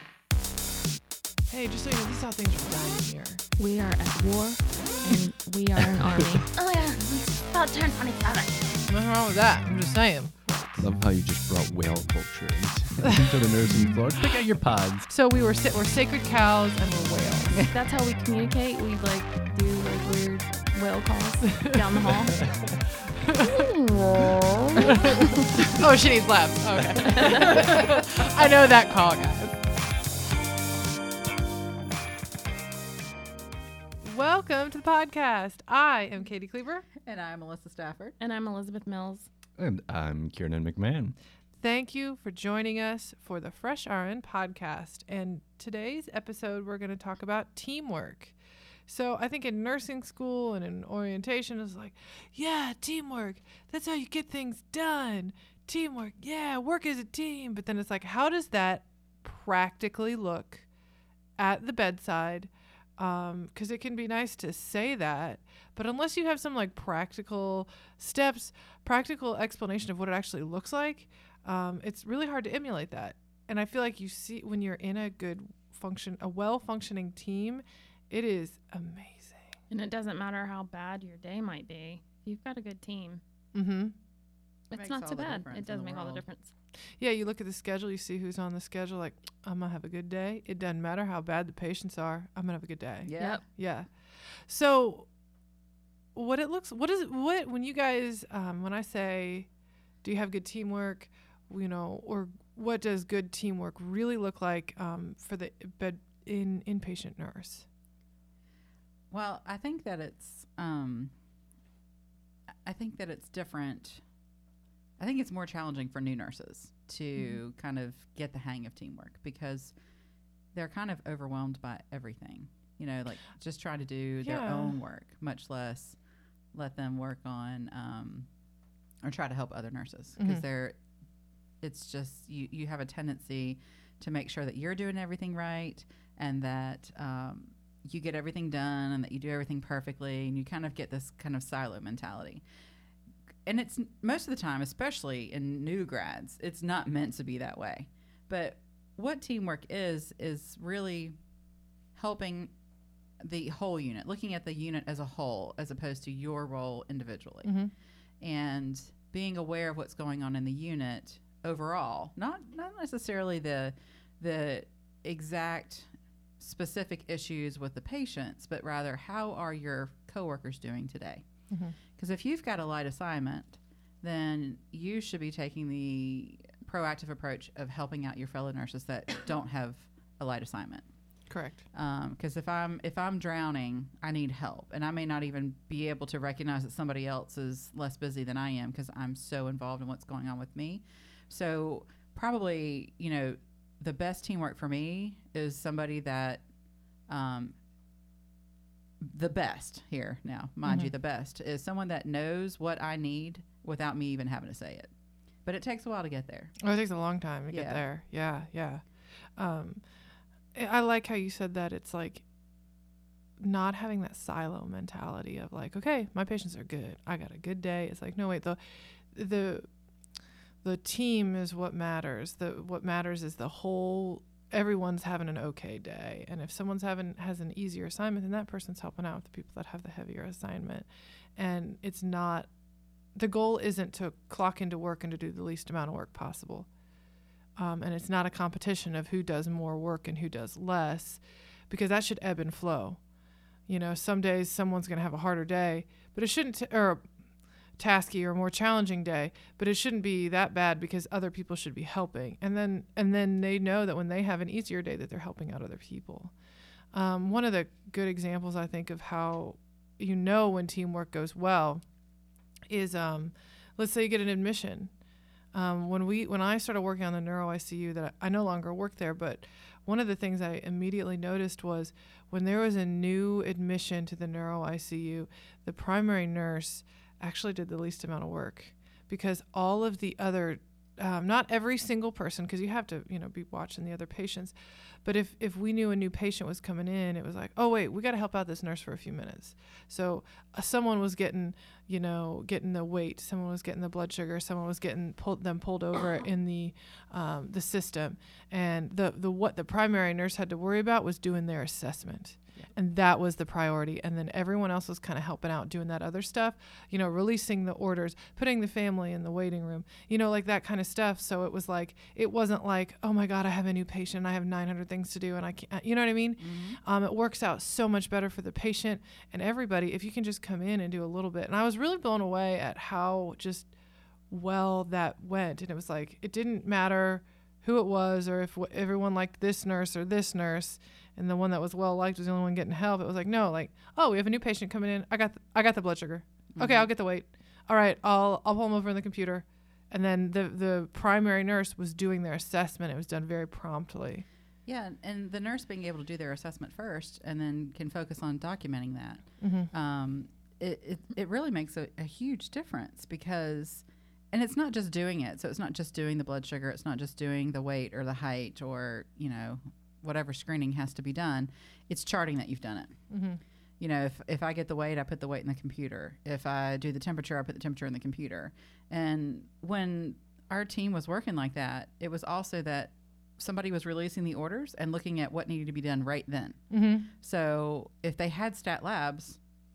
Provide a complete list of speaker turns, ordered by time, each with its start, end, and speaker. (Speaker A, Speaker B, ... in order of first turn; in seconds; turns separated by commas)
Speaker A: 1.5-3.4, Speaker B: 3.6-6.6, Speaker C: 6.5-8.6, Speaker A: 8.9-10.4, Speaker D: 10.8-15.1, Speaker A: 13.0-13.3, Speaker B: 13.7-14.0, Speaker A: 15.1-17.5, Speaker E: 17.5-17.7, Speaker B: 17.7-22.4, Speaker D: 22.3-22.6, Speaker A: 23.2-23.7, Speaker B: 23.4-25.5, Speaker A: 24.8-29.6, Speaker B: 27.0-27.8, Speaker A: 34.0-36.9, Speaker E: 37.0-38.2, Speaker B: 38.2-39.3, Speaker D: 39.6-41.1, Speaker A: 41.6-48.3, Speaker A: 48.9-60.6, Speaker A: 61.4-79.5, Speaker B: 79.7-83.2, Speaker A: 83.5-83.9, Speaker B: 84.7-86.5, Speaker E: 84.7-86.2, Speaker A: 87.0-95.1, Speaker E: 93.0-93.4, Speaker A: 96.1-99.5, Speaker A: 100.0-107.7, Speaker E: 109.1-111.1, Speaker E: 112.6-114.0, Speaker E: 115.0-119.7, Speaker E: 120.5-126.0, Speaker A: 124.2-124.8, Speaker E: 126.5-128.3, Speaker E: 129.0-130.8, Speaker A: 130.2-130.4, Speaker E: 131.6-142.4, Speaker E: 143.4-151.2, Speaker E: 151.9-152.5, Speaker E: 153.2-157.5, Speaker A: 157.4-157.7, Speaker E: 158.2-165.9, Speaker E: 166.4-171.2, Speaker E: 172.0-180.9, Speaker A: 181.3-181.6, Speaker E: 181.7-196.4, Speaker E: 197.1-197.5, Speaker E: 199.0-204.9, Speaker A: 200.6-200.9, Speaker E: 205.4-206.5, Speaker A: 206.6-208.8, Speaker E: 207.5-207.8, Speaker A: 209.4-209.8, Speaker A: 210.5-212.2, Speaker A: 213.4-218.6, Speaker A: 219.1-219.7, Speaker A: 220.6-232.5, Speaker A: 233.1-236.7, Speaker A: 237.6-243.0, Speaker A: 243.7-247.1, Speaker A: 247.8-256.3, Speaker A: 256.9-261.8, Speaker A: 262.7-264.9, Speaker A: 265.5-284.5, Speaker A: 285.0-323.7, Speaker E: 316.4-316.8, Speaker A: 324.3-344.2, Speaker E: 336.6-336.9, Speaker E: 344.6-363.0, Speaker A: 349.4-349.7, Speaker A: 363.1-363.4, Speaker E: 363.8-379.4, Speaker A: 376.7-377.1